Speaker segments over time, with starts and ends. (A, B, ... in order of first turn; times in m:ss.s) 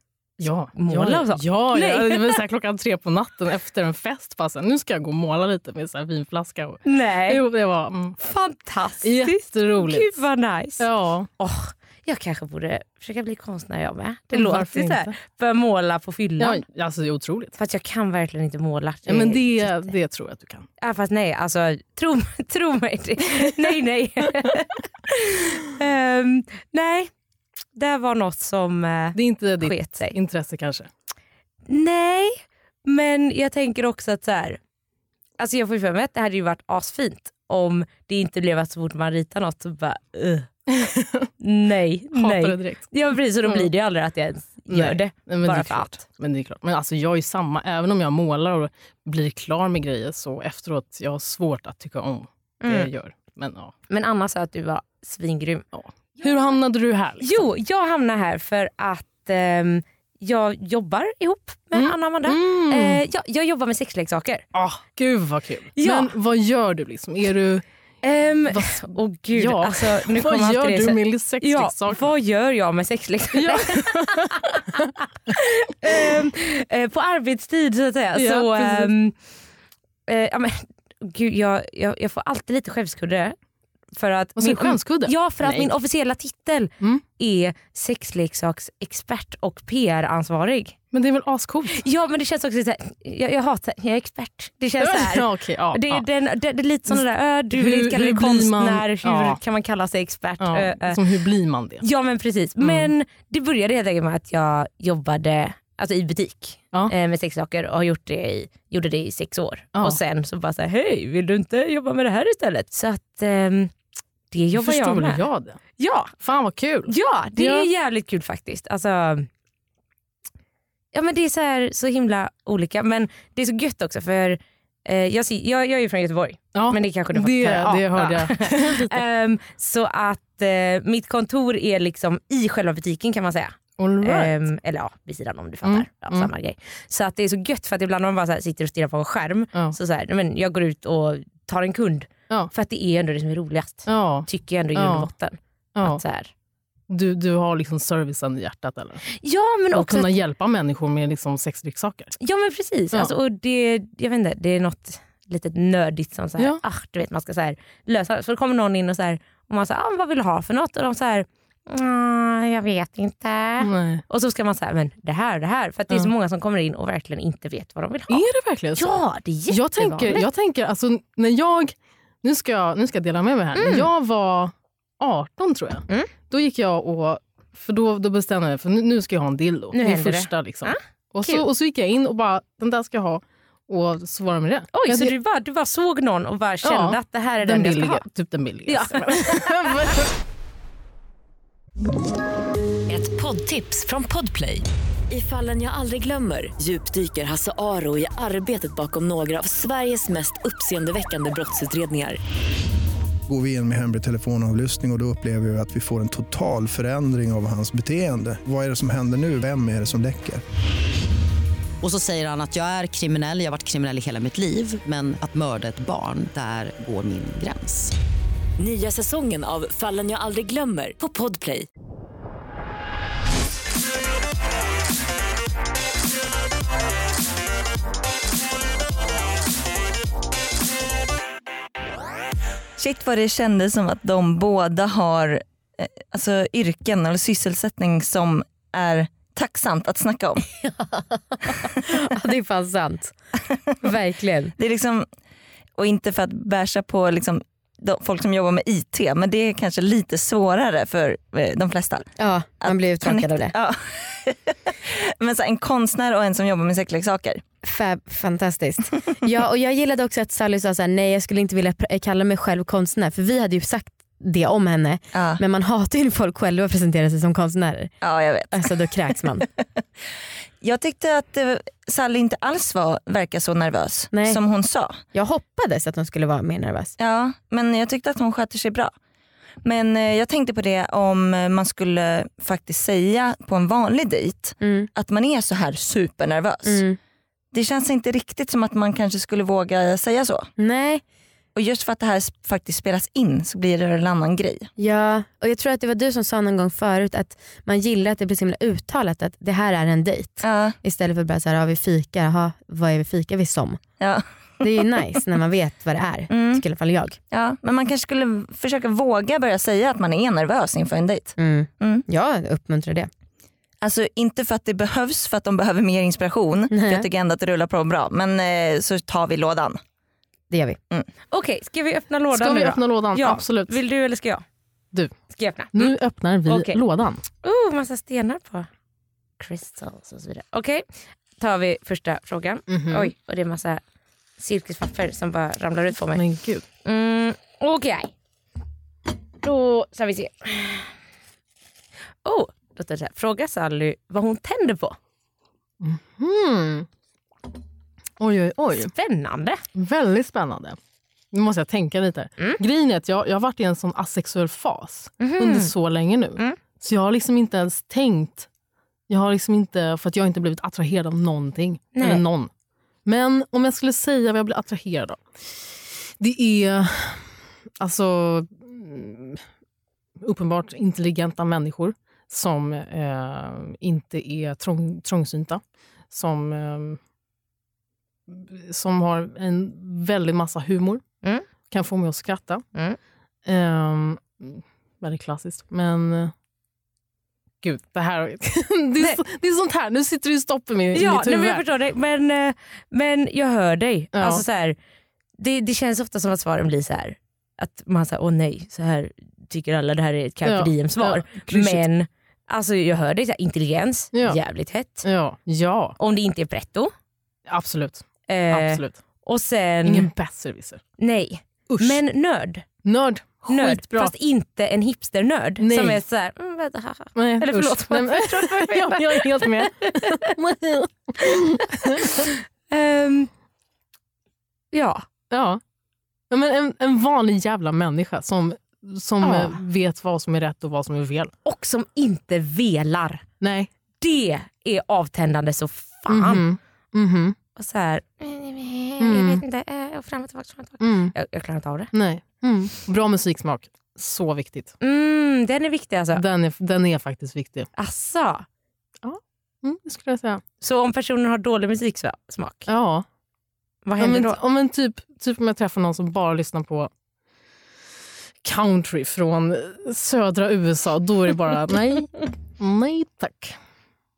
0:00.4-0:08.2 A
0:00.8-0:02.4 B
0:06.9-0:07.4 B
0:08.2-0:10.9 B
0:09.0-0:10.2 A
0:10.8-0:11.3 A
0:11.4-0:16.6 B
0:14.3-0:15.2 A
0:16.4-0:17.6 A
0:17.6-0:19.9 B
0:19.1-0:20.7 A
0:20.8-0:27.1 B
0:27.8-0:30.2 B
0:29.2-0:30.9 A
0:31.7-0:34.6 B
0:35.4-0:40.5 B
0:40.7-0:41.3 A
0:41.4-0:46.0 B
0:42.2-0:42.9 A
0:43.4-0:43.7 A
0:44.7-0:53.7 A
0:52.6-0:52.9 B
0:53.9-0:55.6 B
0:55.7-0:57.4 A
0:57.2-1:04.4 B
1:01.7-1:03.0 A
1:04.6-1:07.6 A
1:05.8-1:06.1 B
1:08.0-1:14.6 B
1:08.5-1:12.0 A
1:13.3-1:14.9 A
1:15.3-1:19.2 B
1:18.2-1:18.9 A
1:20.1-1:23.4 B
1:24.0-1:30.8 B
1:24.4-1:25.7 A
1:30.9-1:31.8 A
1:31.7-1:41.0 B
1:34.8-1:36.0 A
1:37.5-1:39.4 A
1:40.4-1:41.8 A
1:41.8-1:53.7 B
1:42.6-1:42.9 A
1:54.3-1:55.2 B
1:54.6-1:55.6 A
1:55.8-1:56.1 B
1:56.2-1:57.7 A
1:56.9-1:59.3 B
2:00.9-2:26.3 B
2:06.6-2:09.0 A
2:13.8-2:14.4 A
2:15.6-2:16.3 A
2:23.9-2:25.1 A
2:25.8-2:26.0 A
2:26.9-2:29.0 A
2:29.2-2:30.1 B
2:29.7-2:32.1 A
2:32.2-2:48.2 B
2:43.6-2:44.0 A
2:48.1-3:05.1 A
2:48.8-2:50.2 B
2:53.6-2:53.9 B
2:59.7-3:01.4 B
3:04.7-3:08.0 B
3:06.6-3:10.1 A
3:08.7-3:09.5 B
3:12.9-3:22.2 C
3:23.3-3:30.4 D
3:31.8-3:38.0 E
3:38.6-3:41.7 C
3:52.8-4:00.5 F
4:00.6-4:03.1 G
4:03.8-4:04.5 G
4:04.6-4:05.1 F
4:05.8-4:17.4 F
4:12.2-4:13.5 G
4:17.6-4:27.9 G
4:25.1-4:25.4 F
4:28.0-4:28.9 F
4:28.5-4:29.5 G
4:30.6-4:35.0 F
4:34.1-4:34.4 G
4:35.1-4:37.0 G
4:37.0-4:38.9 F
4:39.6-4:46.8 F
4:44.6-4:44.9 G
4:46.6-4:47.0 G
4:47.5-4:50.5 F
4:50.6-4:51.0 G
4:51.6-4:54.7 F
4:54.8-5:03.8 G
5:00.4-5:00.8 F
5:04.0-5:04.7 F
5:04.6-5:07.2 G
5:06.3-5:06.6 F
5:07.3-5:12.0 F
5:11.4-5:13.1 G
5:13.8-5:19.8 F
5:16.7-5:17.1 G
5:20.5-5:20.8 G
5:21.3-5:24.4 B
5:22.3-5:23.8 A
5:25.3-5:25.9 B
5:25.7-5:27.2 A
5:26.5-5:26.8 B
5:27.4-5:28.7 B
5:29.4-5:30.8 B
5:31.4-5:33.8 B
5:32.7-5:33.1 A
5:34.4-5:36.2 B
5:36.2-5:36.6 A
5:36.8-5:38.1 B
5:39.4-5:40.9 B
5:42.2-5:45.0 B
5:45.8-5:46.9 A
5:48.2-5:48.9 A
5:48.8-5:49.6 B
5:49.8-5:50.8 A
5:51.3-5:58.5 A
5:55.2-5:55.7 B
5:59.1-6:02.5 A
6:02.0-6:02.2 B
6:03.0-6:07.3 A
6:07.8-6:09.4 A
6:10.2-6:17.0 A
6:18.3-6:21.0 A
6:21.7-6:22.6 A
6:23.5-6:26.3 A
6:27.6-6:31.6 A
6:30.9-6:34.8 B
6:34.1-6:34.4 A
6:35.4-6:45.1 B
6:40.4-6:41.8 A
6:44.1-6:44.4 A
6:45.0-6:46.0 A
6:46.0-6:46.9 B
6:47.5-6:49.0 A
6:48.3-6:50.1 B
6:49.8-6:50.8 A
6:51.0-6:52.7 B
6:51.7-6:52.0 A
6:52.8-6:54.1 A
6:53.5-7:00.2 B
6:55.6-6:56.0 A
6:57.2-7:02.3 A
7:02.0-7:03.3 B
7:04.7-7:05.0 B
7:05.3-7:05.6 A
7:06.3-7:11.3 A
7:09.2-7:09.6 B
7:11.4-7:13.2 B
7:13.4-7:13.7 A
7:14.0-7:16.4 B
7:16.1-7:17.4 A
7:17.6-7:21.9 B
7:19.0-7:19.4 A
7:20.8-7:21.1 A
7:21.9-7:24.7 A
7:24.8-7:26.2 B
7:26.2-7:27.7 A
7:27.8-7:28.4 B
7:29.0-7:30.4 A
7:30.6-7:32.7 B
7:32.7-7:33.0 A
7:33.8-7:34.4 B
7:34.0-7:36.9 A
7:38.4-7:43.6 A